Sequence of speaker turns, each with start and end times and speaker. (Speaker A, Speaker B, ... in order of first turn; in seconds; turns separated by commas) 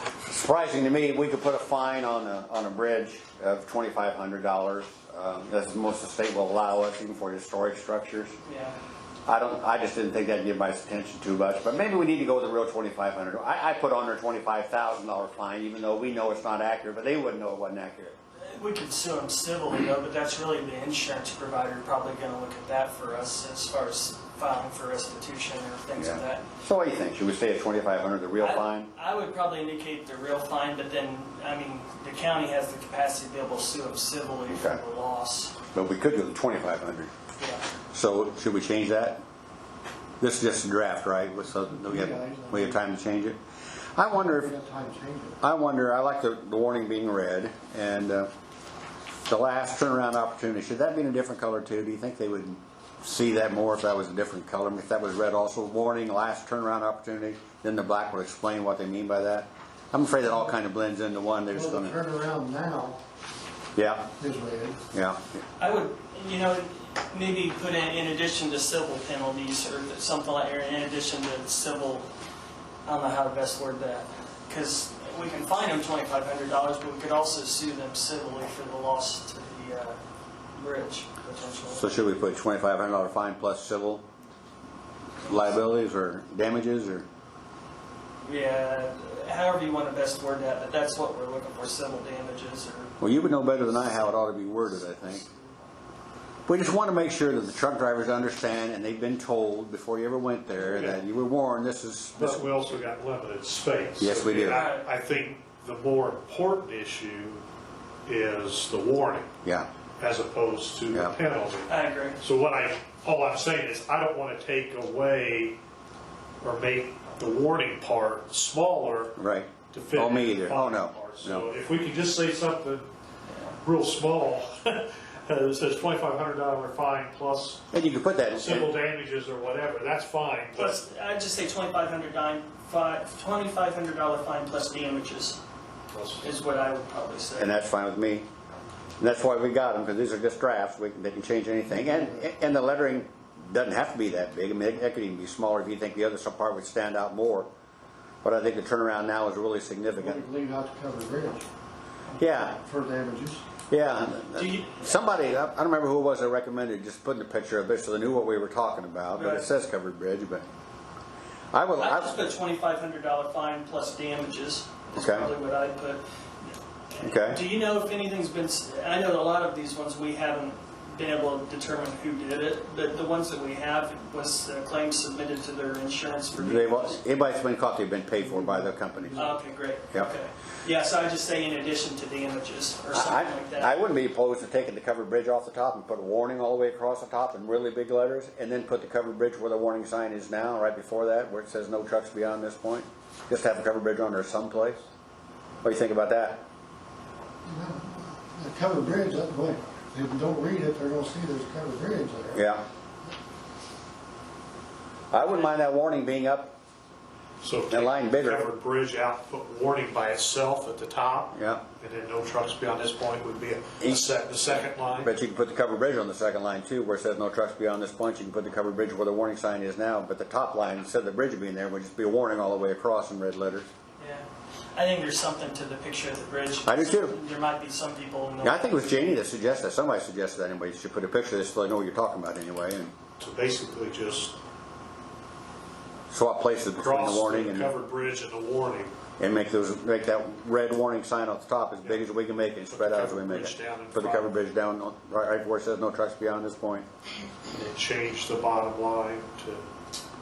Speaker A: 0.2-8.3, Speaker B: 8.4-8.8, Speaker A: 9.3-18.2, Speaker B: 18.4-26.5, Speaker A: 26.0-28.9, Speaker B: 28.4-35.5, Speaker A: 34.5-34.8, Speaker A: 35.7-37.1, Speaker B: 37.4-37.6, Speaker A: 37.9-39.2, Speaker A: 40.2-43.4, Speaker C: 41.6-42.8, Speaker A: 44.0-44.5, Speaker C: 44.1-45.4, Speaker A: 45.4-48.3, Speaker A: 49.3-62.0, Speaker C: 61.5-63.0, Speaker A: 63.8-64.1, Speaker C: 64.2-64.8, Speaker A: 64.9-65.2, Speaker B: 65.6-72.1, Speaker B: 72.8-80.0, Speaker B: 80.5-81.9, Speaker A: 81.7-84.0, Speaker A: 85.2-87.0, Speaker B: 88.2-92.9, Speaker A: 93.0-95.2, Speaker A: 96.5-102.5, Speaker D: 100.6-101.0, Speaker D: 102.2-107.4, Speaker A: 104.0-104.7, Speaker B: 104.5-104.8, Speaker D: 108.0-109.3, Speaker D: 110.0-115.6, Speaker B: 111.7-112.2, Speaker D: 116.4-119.2, Speaker A: 119.2-121.5, Speaker D: 119.7-122.9, Speaker D: 123.6-127.7, Speaker A: 127.7-128.7, Speaker D: 128.3-130.8, Speaker B: 130.6-135.4, Speaker D: 135.9-136.2, Speaker B: 136.2-137.5, Speaker A: 137.4-138.2, Speaker A: 139.0-147.5, Speaker C: 141.7-142.2, Speaker A: 148.2-150.2, Speaker C: 150.0-151.5, Speaker A: 152.2-152.6, Speaker C: 152.4-153.4, Speaker A: 153.7-160.4, Speaker B: 154.4-154.9, Speaker B: 159.1-159.5, Speaker A: 161.5-162.3, Speaker B: 161.8-166.0, Speaker A: 165.0-165.3, Speaker B: 167.0-177.0, Speaker A: 167.0-167.4, Speaker A: 176.4-179.3, Speaker C: 178.2-179.3, Speaker B: 179.2-183.8, Speaker A: 182.9-194.8, Speaker A: 195.6-196.4, Speaker C: 197.4-202.4, Speaker A: 202.3-202.7, Speaker A: 205.1-206.6, Speaker D: 207.4-215.1, Speaker A: 207.7-208.5, Speaker A: 211.3-211.6, Speaker A: 213.8-214.1, Speaker A: 215.0-223.7, Speaker B: 224.0-228.7, Speaker A: 226.7-227.2, Speaker A: 228.4-232.9, Speaker D: 233.2-234.3, Speaker A: 236.1-237.7, Speaker D: 236.8-239.0, Speaker A: 239.2-246.9, Speaker D: 242.7-244.4, Speaker D: 247.5-249.6